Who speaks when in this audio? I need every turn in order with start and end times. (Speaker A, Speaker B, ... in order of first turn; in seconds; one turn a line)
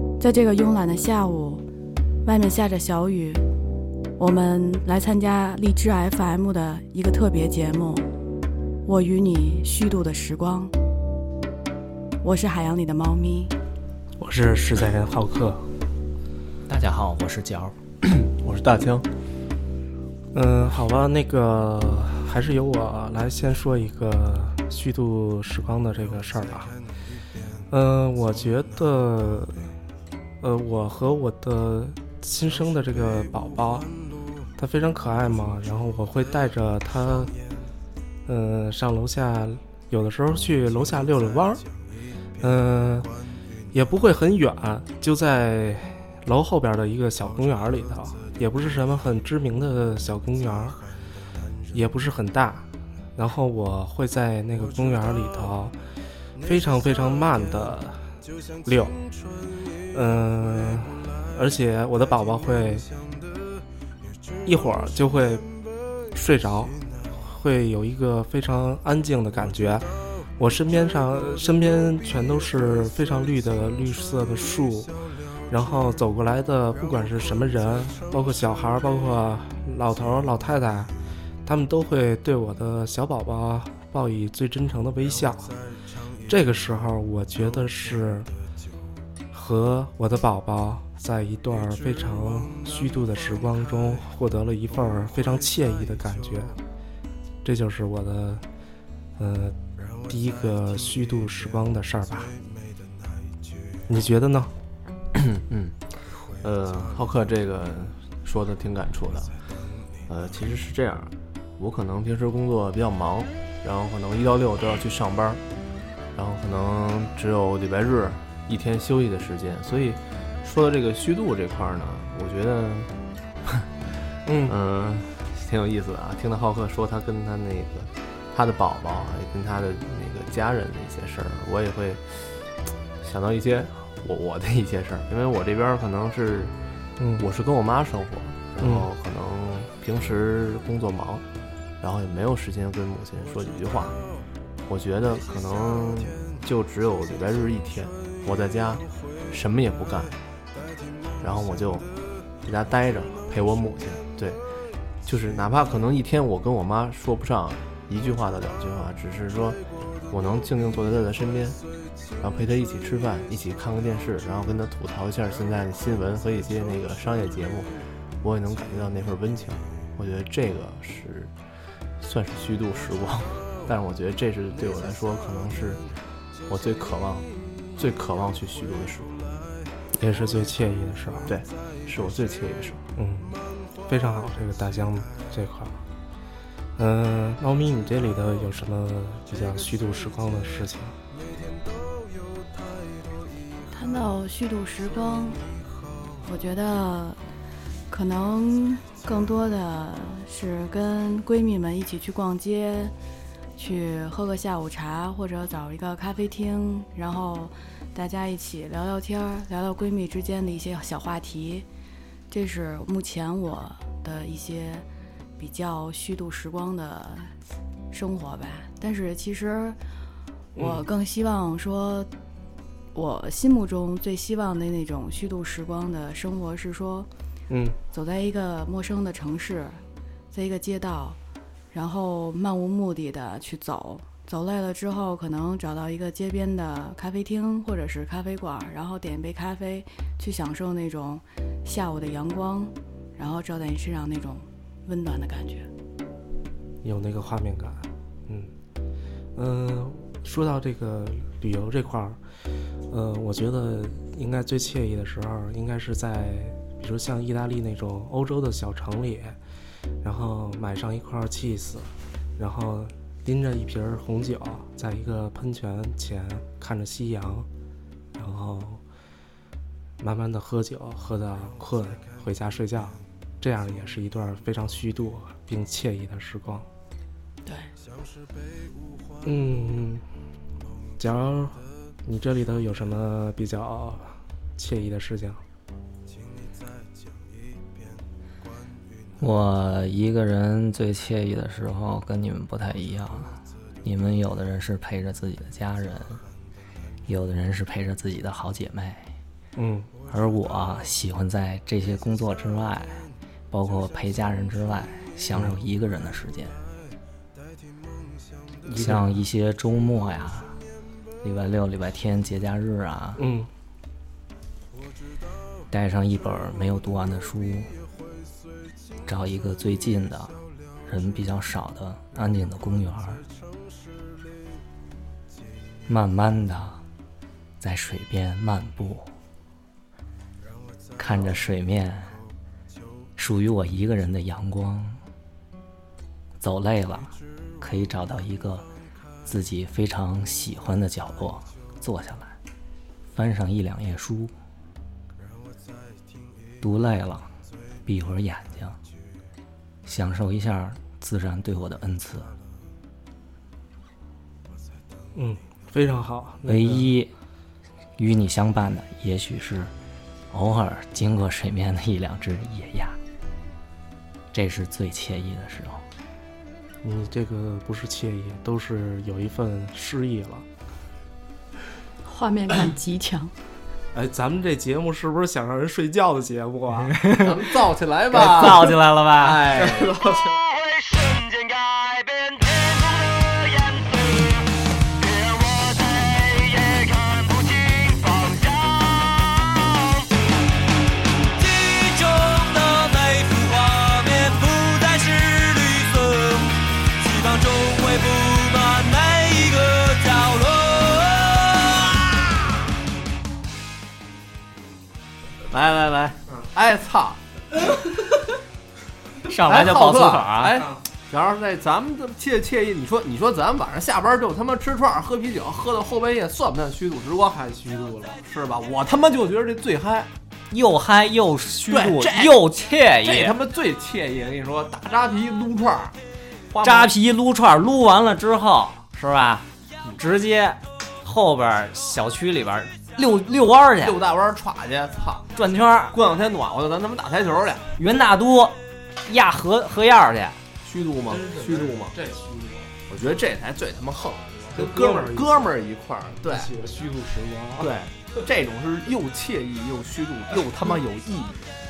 Speaker A: 0.2-1.6
Speaker A: 2.2-3.5
Speaker A: 4.2-8.1
Speaker A: 8.8-10.7
Speaker A: 12.2-13.5
Speaker B: 14.2-15.6
Speaker C: 16.7-17.7
Speaker D: 18.0-19.1
Speaker B: 20.3-26.7
Speaker B: 27.7-29.7
Speaker B: 30.4-33.9
Speaker B: 34.5-37.3
Speaker B: 38.3-41.6
Speaker B: 42.4-43.1
Speaker B: 43.7-50.8
Speaker B: 51.7-55.8
Speaker B: 56.4-59.0
Speaker B: 59.9-62.9
Speaker B: 64.4-65.5
Speaker B: 66.1-69.8
Speaker B: 70.4-74.9
Speaker B: 75.5-80.9
Speaker B: 81.4-85.6
Speaker B: 86.3-88.3
Speaker B: 89.3-96.5
Speaker B: 97.4-98.4
Speaker B: 99.2-102.4
Speaker B: 103.9-104.5
Speaker D: 105.2-109.3
Speaker D: 110.1-115.4
Speaker D: 116.1-122.9
Speaker B: 124.2-124.6
Speaker D: 124.5-132.2
Speaker D: 133.0-136.5
Speaker B: 137.0-137.2
Speaker D: 137.2-141.2
Speaker B: 138.6-138.9
Speaker D: 141.8-144.0
Speaker D: 144.7-150.2
Speaker D: 151.2-151.9
Speaker D: 152.4-154.4
Speaker D: 155.1-159.6
Speaker D: 160.1-161.6
Speaker D: 162.2-171.3
Speaker D: 172.0-175.8
Speaker D: 176.5-179.2
Speaker B: 179.9-181.3
Speaker D: 181.3-182.8
Speaker B: 183.0-185.8
Speaker B: 186.8-191.0
Speaker A: 193.7-195.5
Speaker A: 196.2-197.2
Speaker A: 197.9-202.9
Speaker A: 203.6-211.7
Speaker A: 212.3-214.9
Speaker A: 215.4-217.3
Speaker A: 217.9-219.8
Speaker A: 220.6-222.1
Speaker B: 220.6-220.8
Speaker A: 222.9-227.1
Speaker B: 227.5-227.8
Speaker A: 227.9-229.8
Speaker A: 230.3-231.2
Speaker A: 231.7-245.7
Speaker B: 246.8-248.5
Speaker B: 249.4-252.2
Speaker B: 252.9-259.4
Speaker B: 260.0-267.5
Speaker B: 268.1-268.8
Speaker B: 270.0-276.7
Speaker B: 279.2-280.1
Speaker B: 281.0-285.4
Speaker C: 289.2-296.2
Speaker C: 297.1-299.1
Speaker B: 299.6-299.9
Speaker C: 300.1-306.6
Speaker B: 305.3-305.6
Speaker B: 308.7-309.2
Speaker C: 308.8-310.6
Speaker C: 311.2-313.2
Speaker B: 313.2-313.5
Speaker C: 315.7-317.7
Speaker C: 319.1-320.3
Speaker C: 320.9-323.2
Speaker C: 325.9-326.8
Speaker C: 327.6-329.1
Speaker C: 331.0-332.2
Speaker C: 333.2-335.0
Speaker C: 336.4-338.7
Speaker C: 339.2-342.4
Speaker C: 343.1-344.3
Speaker C: 346.6-347.3
Speaker C: 347.9-348.8
Speaker C: 349.9-352.3
Speaker B: 355.1-356.9
Speaker C: 356.4-357.1
Speaker C: 358.0-359.7
Speaker C: 360.3-363.0
Speaker C: 364.3-365.8
Speaker B: 366.8-370.4
Speaker A: 372.1-373.3
Speaker B: 373.9-377.0
Speaker C: 376.9-377.4
Speaker D: 377.2-380.1
Speaker C: 378.1-379.5
Speaker B: 379.6-380.4
Speaker E: 380.9-384.1
Speaker E: 385.0-388.8
Speaker C: 391.4-396.4
Speaker E: 395.9-401.2
Speaker C: 398.1-399.6
Speaker D: 405.5-407.2
Speaker C: 409.2-410.7
Speaker D: 409.5-417.4
Speaker B: 417.3-418.2
Speaker D: 418.2-420.1
Speaker C: 420.5-423.4
Speaker D: 421.7-422.4
Speaker D: 423.0-425.9
Speaker D: 426.5-426.9
Speaker C: 426.6-429.4
Speaker C: 429.9-434.0
Speaker D: 433.8-435.3
Speaker C: 435.4-436.0
Speaker D: 435.9-437.7
Speaker C: 437.8-440.4
Speaker D: 440.6-441.9
Speaker B: 441.1-442.7
Speaker D: 442.9-446.5
Speaker B: 444.5-445.5
Speaker B: 446.2-447.8
Speaker D: 447.6-451.5